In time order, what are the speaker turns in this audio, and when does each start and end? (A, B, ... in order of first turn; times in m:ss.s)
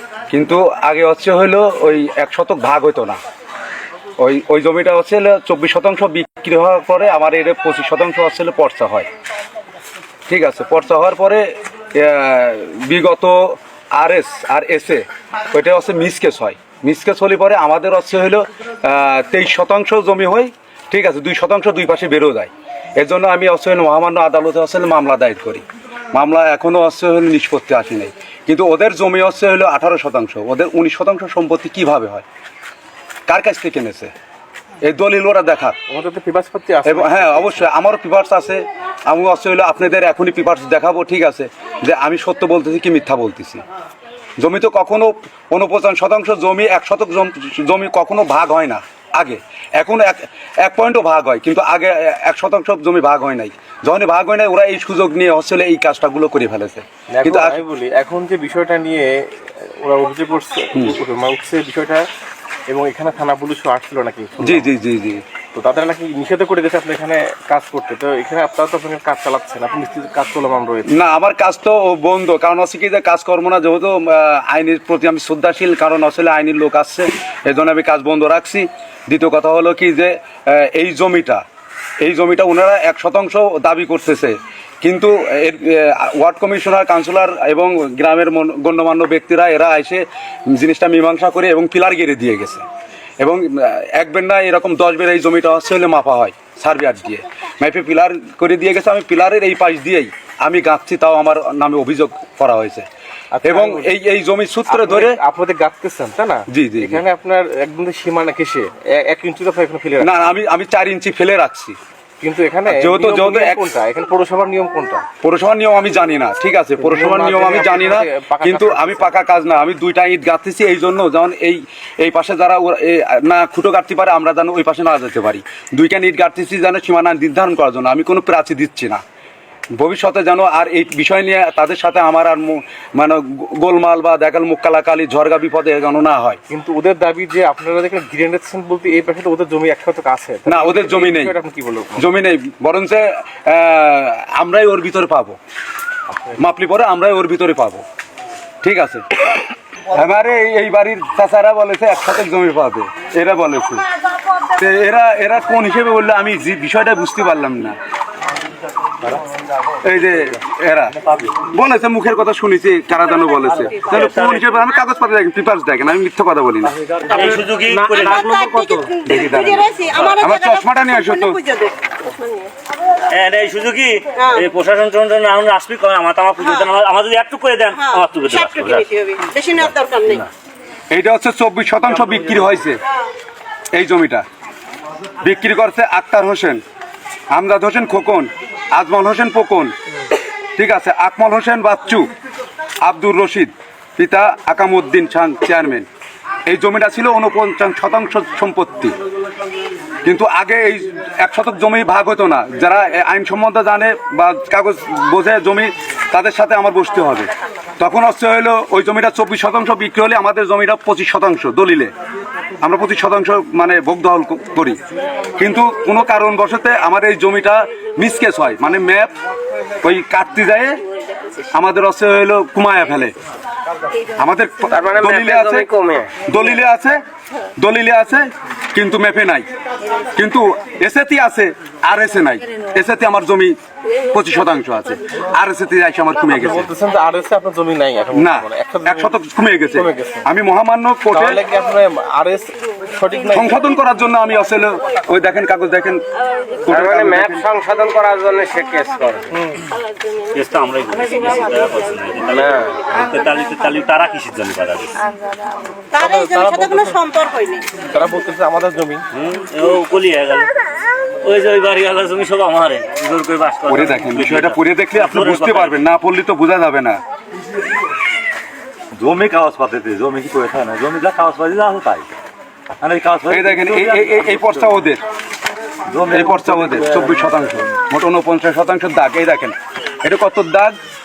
0:00.3-0:03.2 A
0:04.2-0:09.1 A
0:10.3-0:32.2 A
0:33.3-0:34.1 A
0:34.8-0:35.8 A
0:35.9-0:37.7 B
0:36.9-0:43.6 A
0:44.4-0:57.6 A
0:57.1-1:02.1 B
1:02.7-1:04.7 B
1:04.4-1:05.2 A
1:05.5-1:10.9 B
1:10.9-1:21.4 A
1:22.0-1:32.6 A
1:33.2-1:42.9 A
1:43.3-1:43.9 B
1:43.4-1:45.2 A
1:44.7-1:50.2 B
1:46.5-1:47.0 A
1:50.0-1:51.8 A
1:52.2-1:55.0 B
1:52.7-1:53.6 A
1:55.2-2:09.0 A
1:56.8-1:59.1 B
2:09.8-2:16.4 A
2:16.5-2:22.0 B
2:20.5-2:21.4 A
2:22.0-2:25.4 A
2:26.4-2:27.8 A
2:28.6-2:29.0 A
2:29.9-2:33.8 A
2:34.5-2:37.8 A
2:39.8-2:41.0 A
2:41.5-2:51.4 A
2:43.7-2:44.6 C
2:47.1-2:48.3 C
2:48.0-2:52.5 D
2:53.1-2:58.9 C
2:54.2-2:54.5 D
2:57.7-3:00.3 D
3:00.9-3:02.8 A
3:03.8-3:04.2 A
3:05.2-3:06.6 A
3:07.3-3:09.7 A
3:10.6-3:12.1 A
3:12.8-3:15.9 A
3:16.5-3:19.0 A
3:20.0-3:27.3 A
3:27.8-3:31.9 A
3:32.6-3:34.8 A
3:35.4-3:39.1 A
3:39.8-3:40.8 A
3:41.0-3:41.3 D
3:41.5-3:43.1 A
3:44.2-3:45.7 A
3:44.7-3:46.2 E
3:46.2-3:47.0 A
3:47.6-3:49.5 A
3:50.1-3:53.6 A
3:54.1-3:56.7 A
3:56.3-3:59.2 B
3:58.2-4:01.4 A
3:59.7-4:00.2 B
4:01.1-4:03.6 B
4:03.3-4:06.0 A
4:06.6-4:07.5 A
4:06.7-4:09.3 E
4:09.3-4:09.6 B
4:10.3-4:15.0 C
4:12.3-4:12.8 E
4:15.9-4:17.7 D
4:16.0-4:17.0 B
4:17.8-4:19.0 B
4:19.1-4:20.5 C
4:21.2-4:25.8 C
4:23.7-4:27.0 A
4:29.0-4:32.1 F
4:32.8-4:34.6 F
4:33.3-4:35.0 A
4:35.9-4:37.4 F
4:36.1-4:40.8 A